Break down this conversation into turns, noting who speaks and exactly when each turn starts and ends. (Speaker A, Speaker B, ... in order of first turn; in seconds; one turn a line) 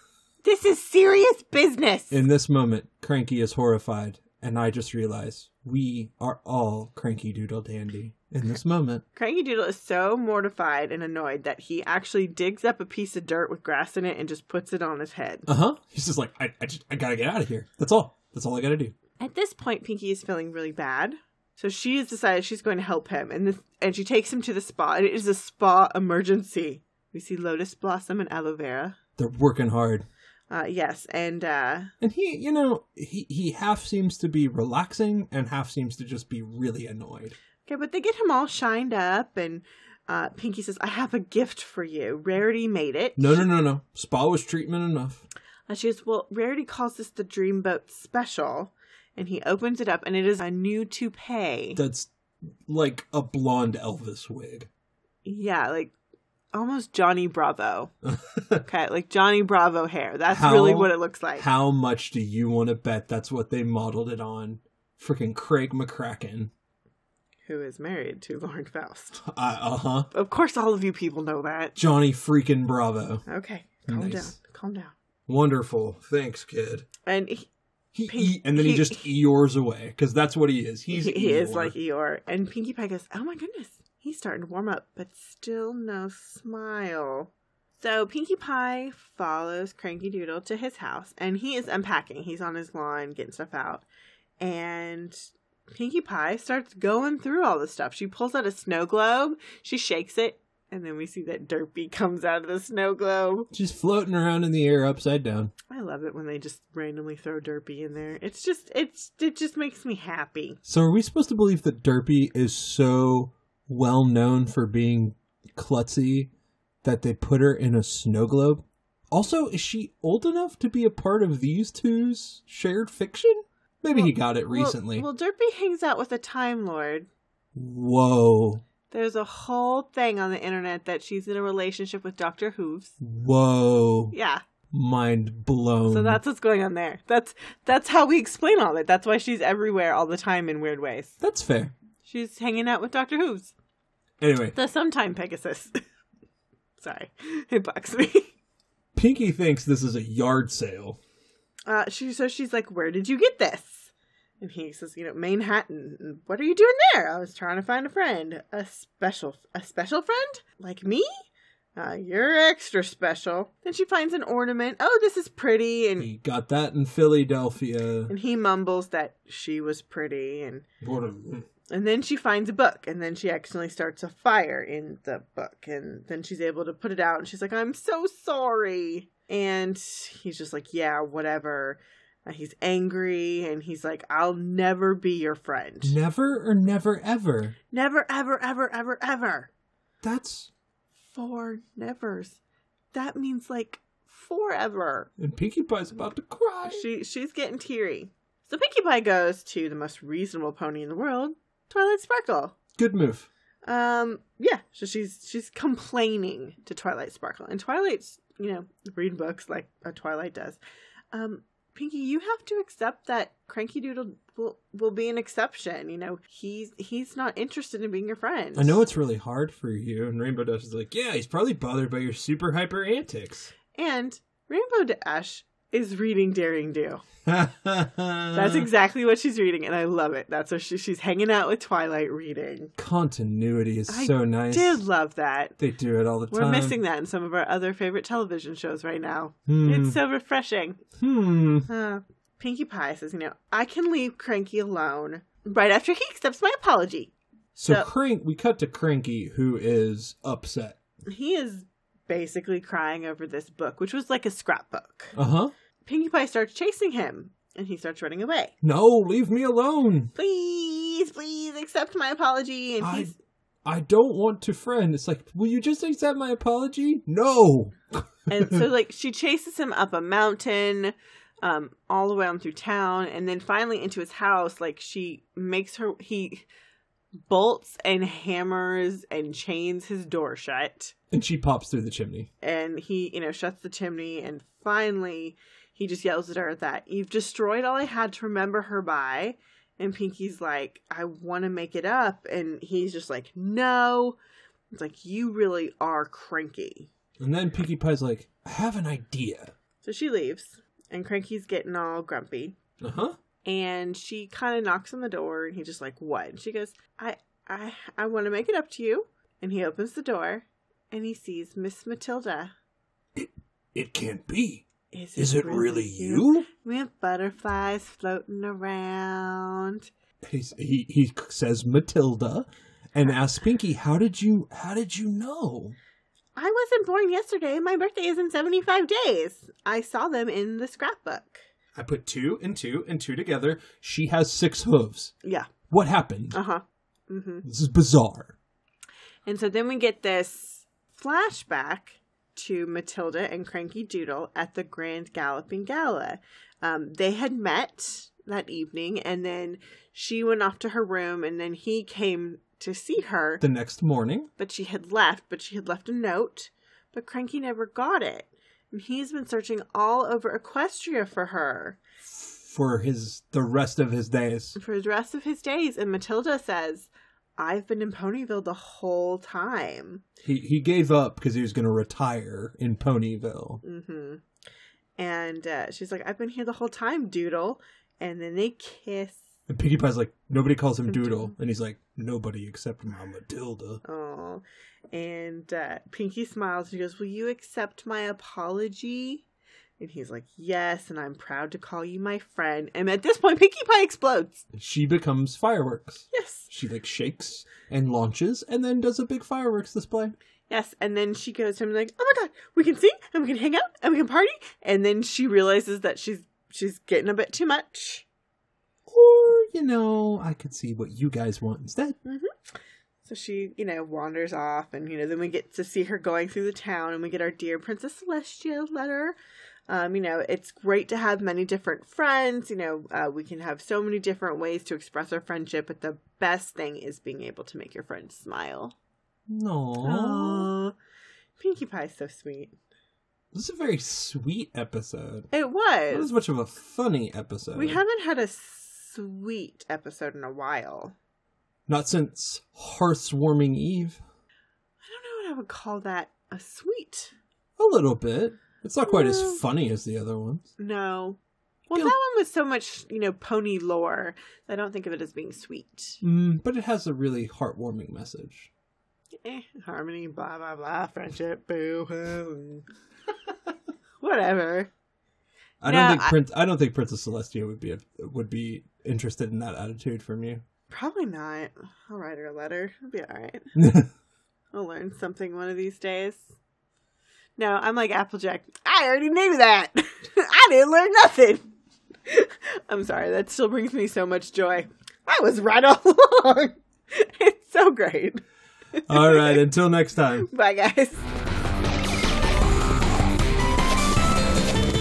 Speaker A: 0.4-2.2
Speaker B: 2.1-9.0
Speaker A: 9.1-15.5
Speaker B: 15.5-18.9
Speaker A: 19.2-29.0
Speaker B: 29.2-30.1
Speaker A: 30.5-31.9
Speaker B: 32.0-37.4
Speaker A: 37.6-43.5
Speaker B: 43.2-45.2
Speaker A: 45.7-51.8
Speaker B: 51.8-52.1
Speaker B: 52.6-54.7
Speaker A: 55.2-55.9
Speaker A: 56.5-57.9
Speaker B: 58.0-58.6
Speaker A: 58.6-61.5
Speaker B: 60.3-66.5
Speaker A: 67.5-69.2
Speaker B: 69.2-70.1
Speaker A: 70.1-71.8
Speaker B: 71.8-73.2
Speaker A: 73.3-74.9
Speaker B: 73.9-74.3
Speaker B: 75.3-76.9
Speaker A: 77.0-77.5
Speaker B: 77.9-81.8
Speaker A: 78.1-79.1
Speaker A: 80.9-93.8
Speaker A: 94.4-95.2
Speaker A: 95.7-103.5
Speaker B: 103.5-105.5
Speaker A: 105.7-110.6
Speaker B: 110.7-116.3
Speaker B: 116.8-125.1
Speaker A: 123.9-127.1
Speaker B: 127.5-128.6
Speaker A: 128.9-132.9
Speaker B: 133.0-134.1
Speaker A: 134.1-134.4
Speaker B: 134.7-136.2
Speaker A: 135.9-141.2
Speaker B: 141.2-141.7
Speaker A: 142.0-143.5
Speaker B: 144.2-144.6
Speaker A: 144.5-145.8
Speaker A: 146.8-148.3
Speaker B: 148.9-151.0
Speaker A: 151.7-161.1
Speaker A: 161.8-166.1
Speaker B: 166.0-168.1
Speaker A: 168.1-170.6
Speaker B: 170.8-171.4
Speaker A: 171.7-185.9
Speaker B: 185.8-187.5
Speaker A: 187.7-189.5
Speaker B: 190.0-190.5
Speaker A: 191.0-192.4
Speaker A: 192.9-195.1
Speaker B: 195.2-196.9
Speaker A: 196.7-202.5
Speaker B: 202.8-203.3
Speaker A: 203.6-210.6
Speaker A: 211.1-218.8
Speaker B: 218.6-223.5
Speaker A: 223.7-227.0
Speaker B: 227.3-228.7
Speaker A: 228.3-232.7
Speaker B: 232.8-234.8
Speaker A: 233.9-235.6
Speaker B: 235.6-236.8
Speaker A: 236.3-240.8
Speaker B: 239.5-240.0
Speaker B: 241.0-241.7
Speaker A: 241.7-247.1
Speaker B: 247.6-250.8
Speaker A: 251.1-255.2
Speaker B: 255.1-255.5
Speaker A: 255.8-258.5
Speaker B: 258.6-260.1
Speaker A: 260.1-263.1
Speaker B: 262.8-263.1
Speaker B: 263.6-268.6
Speaker A: 268.3-276.5
Speaker A: 277.3-280.9
Speaker B: 281.1-282.3
Speaker A: 282.4-294.2
Speaker A: 294.7-296.9
Speaker B: 297.2-299.5
Speaker A: 299.8-302.6
Speaker B: 302.8-303.1
Speaker A: 303.4-312.5
Speaker B: 313.1-314.6
Speaker A: 314.9-319.9
Speaker B: 315.2-316.5
Speaker B: 320.2-325.8
Speaker A: 326.4-331.4
Speaker B: 331.8-335.1
Speaker A: 335.2-335.5
Speaker B: 335.7-336.4
Speaker A: 336.3-337.4
Speaker B: 337.4-338.4
Speaker A: 339.2-353.4
Speaker B: 353.4-354.3
Speaker A: 354.4-361.8
Speaker B: 362.1-364.6
Speaker A: 364.6-370.0
Speaker B: 370.2-373.6
Speaker A: 373.6-374.2
Speaker A: 375.0-379.3
Speaker B: 379.5-383.8
Speaker A: 380.9-381.3
Speaker A: 383.8-389.2
Speaker A: 389.8-394.4
Speaker B: 394.5-400.1
Speaker A: 396.1-396.5
Speaker A: 400.5-408.1
Speaker B: 408.9-411.9
Speaker A: 412.0-419.1
Speaker A: 419.7-428.7
Speaker B: 429.3-430.5
Speaker A: 429.8-430.7
Speaker A: 431.4-432.5
Speaker B: 433.3-435.3
Speaker A: 435.3-436.1
Speaker B: 435.9-437.8
Speaker A: 437.5-440.9
Speaker B: 441.7-444.0
Speaker A: 444.8-447.1
Speaker B: 447.6-450.5
Speaker A: 448.9-449.4
Speaker A: 450.6-456.0
Speaker B: 456.0-458.5
Speaker A: 459.2-462.6
Speaker A: 464.0-464.7
Speaker B: 465.6-470.4
Speaker A: 465.6-466.1
Speaker A: 470.7-473.5
Speaker B: 473.6-473.9
Speaker A: 474.5-476.4
Speaker A: 477.4-481.4
Speaker A: 482.1-488.2
Speaker A: 488.8-489.4
Speaker B: 488.9-490.3
Speaker A: 490.2-491.1